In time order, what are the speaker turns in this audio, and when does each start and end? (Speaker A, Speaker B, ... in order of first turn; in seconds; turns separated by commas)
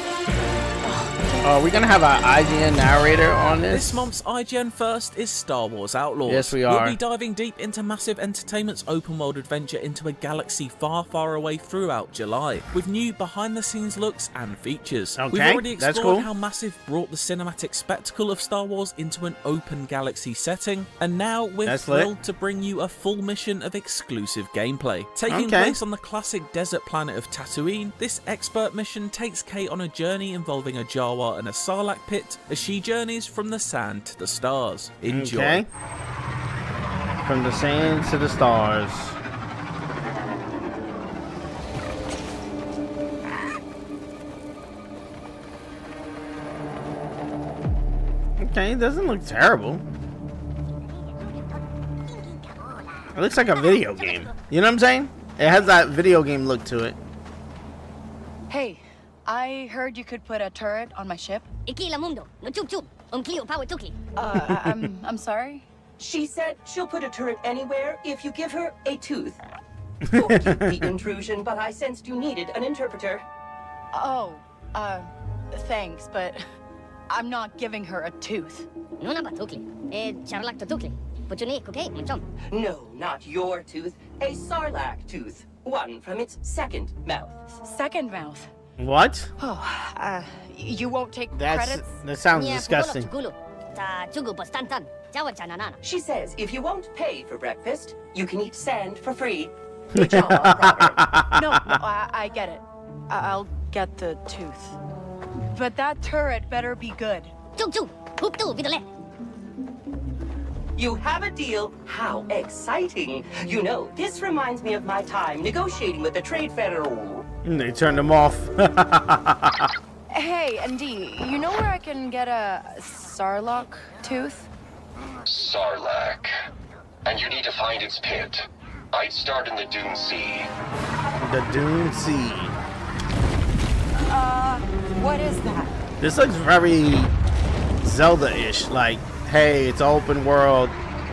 Speaker A: 0.8-1.5, Speaker B: 1.4-4.1, Speaker C: 3.7-35.6, Speaker B: 6.2-7.0, Speaker B: 15.2-16.3, Speaker B: 21.6-22.1, Speaker B: 25.3-25.8, Speaker B: 35.1-35.6, Speaker B: 37.2-39.2, Speaker B: 48.4-49.8, Speaker B: 53.1-57.0, Speaker A: 58.5-61.5, Speaker D: 61.6-63.9, Speaker A: 64.2-65.7, Speaker B: 64.3-64.8, Speaker E: 66.0-69.4, Speaker B: 70.0-70.9, Speaker E: 70.1-73.2, Speaker A: 73.9-76.4, Speaker A: 77.1-78.7, Speaker D: 79.0-82.2, Speaker E: 82.5-87.5, Speaker A: 87.5-88.5, Speaker B: 88.8-89.3, Speaker A: 89.4-92.0, Speaker B: 91.3-93.1, Speaker D: 92.3-95.8, Speaker E: 95.8-101.1, Speaker B: 99.9-101.8, Speaker A: 101.3-104.8, Speaker A: 105.5-107.3, Speaker D: 107.6-108.8, Speaker E: 110.8-117.2, Speaker B: 117.4-119.7, Speaker A: 120.1-124.5, Speaker F: 125.2-126.3, Speaker F: 127.0-130.5, Speaker B: 131.2-132.6, Speaker A: 133.9-135.8, Speaker B: 136.0-137.1, Speaker B: 137.8-140.8